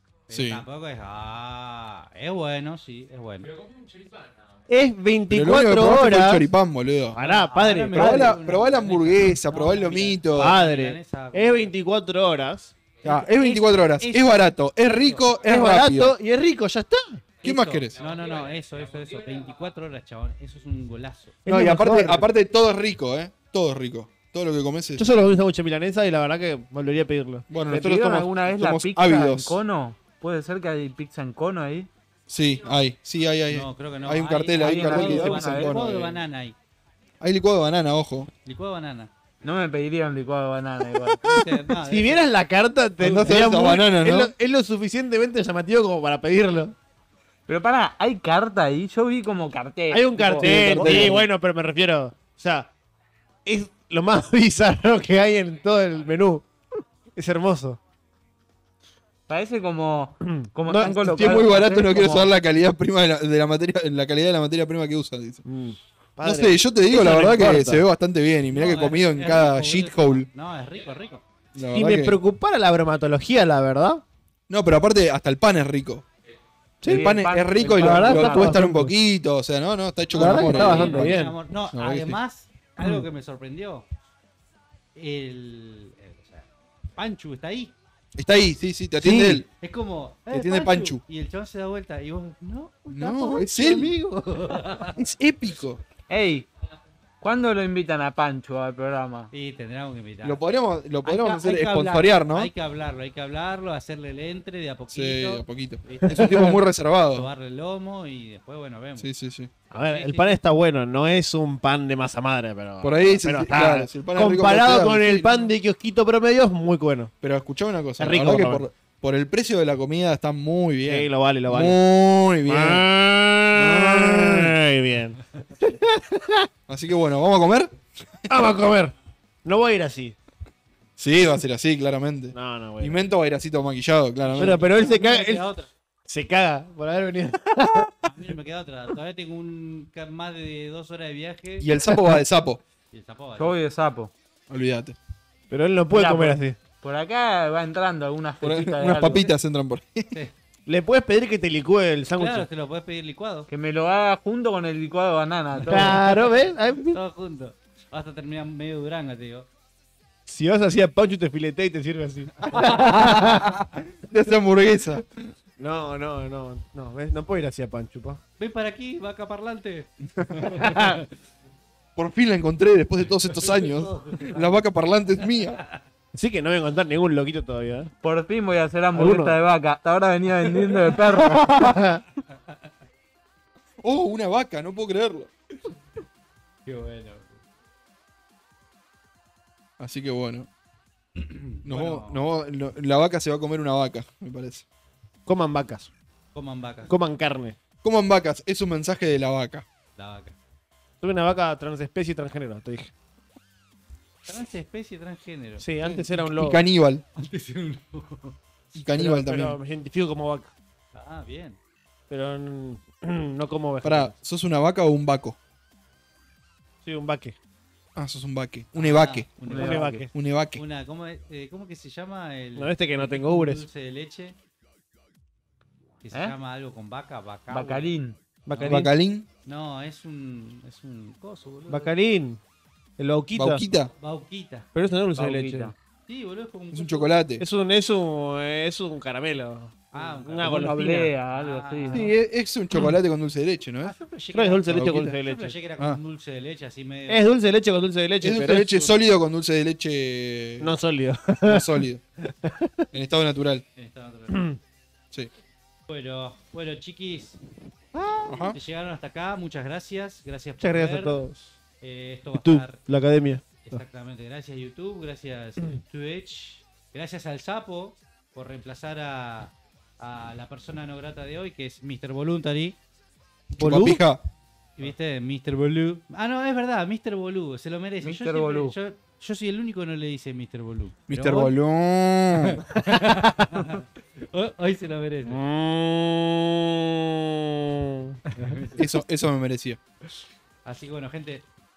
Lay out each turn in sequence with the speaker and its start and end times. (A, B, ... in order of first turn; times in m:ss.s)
0:00.3-0:03.5 A
0:00.3-0:00.6 B
0:04.7-0:06.5 C
0:05.3-0:07.2 B
0:07.1-0:11.7 A
0:07.2-0:08.4 C
0:07.9-0:10.6 B
0:10.3-0:12.8 C
0:13.0-0:16.2 B
0:13.0-0:15.2 A
0:15.4-0:17.3 C
0:17.4-0:18.0 B
0:17.4-0:21.4 A
0:21.4-0:22.3 C
0:21.4-0:25.1 B
0:25.0-0:28.0 C
0:27.5-0:29.6 B
0:27.7-0:31.9 D
0:32.3-0:36.2 B
0:33.5-0:36.6 A
0:34.6-0:35.9 D
0:37.2-0:38.3 B
0:38.4-0:39.1 A
0:39.4-0:41.4 D
0:41.2-0:42.2 A
0:41.3-0:46.7 C
0:43.0-0:44.3 B
0:47.5-0:51.2 D
0:49.9-0:52.7 C
0:50.3-0:51.3 B
0:53.4-0:57.8 C
0:59.3-1:02.3 D
1:00.4-1:01.4 C
1:00.8-1:05.4 B
1:05.4-1:07.8 C
1:06.2-1:10.3 B
1:08.5-1:11.2 A
1:11.5-1:12.2 B
1:11.7-1:14.0 C
1:14.5-1:16.0 B
1:16.8-1:18.9 C
1:16.8-1:18.6 D
1:16.8-1:22.2 B
1:20.1-1:23.9 A
1:20.1-1:21.3 C
1:22.8-1:23.0 C
1:24.9-1:27.7 A
1:28.2-1:29.5 B
1:29.0-1:29.4 C
1:29.6-1:35.0 A
1:30.3-1:31.0 B
1:32.9-1:33.9 B
1:34.9-1:35.8 B
1:36.1-1:36.5 D
1:37.2-1:39.3 D
1:39.3-1:40.4 A
1:40.2-1:42.5 B
1:41.0-1:46.6 A
1:44.9-1:47.3 B
1:46.0-1:46.5 C
1:47.1-1:49.1 A
1:49.0-1:49.5 B
1:49.7-1:57.1 C
1:49.8-1:50.4 A
1:52.8-1:55.5 B
1:57.2-2:02.8 B
1:58.0-1:58.6 C
2:00.8-2:01.8 C
2:02.4-2:06.5 C
2:03.5-2:04.6 B
2:06.7-2:07.7 B
2:08.3-2:10.2 C
2:11.0-2:14.6 B
2:12.3-2:13.0 C
2:14.2-2:15.7 A
2:14.4-2:15.5 C
2:16.0-2:18.1 C
2:18.0-2:21.7 A
2:21.6-2:22.6 B
2:21.9-2:22.2 C
2:22.9-2:23.6 A
2:23.4-2:24.1 D
2:24.5-2:25.0 B
2:25.5-2:26.6 C
2:25.9-2:29.3 D
2:28.4-2:30.1 B
2:29.0-2:29.3 A
2:30.7-2:32.4 C
2:32.2-2:33.5 A
2:33.5-2:36.0 D
2:35.6-2:36.3 A
2:35.7-2:37.0 C
2:36.9-2:39.5 A
2:40.2-2:43.5 C
2:42.4-2:45.3 B
2:45.6-2:48.2 C
2:48.4-2:51.0 A
2:50.2-2:50.5 B
2:50.4-2:51.0 C
2:52.0-2:55.6 B
2:53.2-2:54.6 A
2:55.4-2:55.8 A
2:56.1-2:57.9 C
2:58.0-3:01.5 D
2:58.9-2:59.4 C
3:01.2-3:02.0 C
3:03.8-3:05.3 B
3:06.6-3:07.3 A
3:09.8-3:10.5 B
3:11.2-3:12.2 A
3:11.6-3:14.6 B
3:15.2-3:15.9 C
3:16.3-3:16.9 A
3:16.9-3:17.6 C
3:17.8-3:19.6 B
3:20.0-3:20.4 A
3:21.0-3:22.9 C
3:24.2-3:25.6 A
3:25.6-3:26.6 C
3:25.8-3:27.0 B
3:27.2-3:28.4 A
3:28.7-3:29.6 B
3:28.9-3:30.5 C
3:30.9-3:31.6 A
3:32.1-3:34.1 C
3:33.8-3:35.4 B
3:36.8-3:37.4 C
3:38.0-3:39.3 B
3:38.7-3:40.0 A
3:39.4-3:40.1 D
3:39.5-3:40.1 C
3:40.1-3:40.6 B
3:40.5-3:44.4 A
3:42.6-3:43.6 C
3:46.0-3:47.9 A
3:47.5-3:48.2 D
3:48.5-3:48.9 C
3:48.5-3:48.9 A
3:48.6-3:49.3 B
3:49.4-3:51.9 A
3:51.7-3:52.4 C
3:53.0-3:53.6 C
3:53.3-3:53.9 B
3:54.0-3:54.7 A
3:54.7-3:55.7 C
3:55.1-3:55.7 D
3:56.1-3:57.2 A
3:56.7-3:57.4 B
3:57.4-4:01.1 C
3:59.9-4:02.1 A
4:00.4-4:02.1 D
4:01.9-4:03.9 B
4:03.8-4:07.3 A
4:04.3-4:05.6 C
4:04.7-4:05.0 B
4:07.1-4:08.9 C
4:08.2-4:10.7 B
4:10.6-4:12.8 C
4:11.4-4:12.0 B
4:12.9-4:13.6 B
4:13.8-4:14.5 A
4:14.3-4:14.6 C
4:15.9-4:17.4 A
4:17.9-4:18.3 C
4:18.3-4:18.6 B
4:18.4-4:21.2 A
4:20.6-4:21.4 C
4:21.8-4:22.8 A
4:22.4-4:23.8 C
4:23.6-4:32.8 A
4:33.5-4:34.0 C
4:33.6-4:34.2 B
4:34.8-4:41.5 A
4:38.0-4:38.7 D
4:41.1-4:42.6 B
4:42.4-4:45.4 A
4:42.8-4:43.5 C
4:45.3-4:48.2 C
4:48.3-4:48.9 A
4:48.8-4:49.8 B
4:50.6-4:51.4 A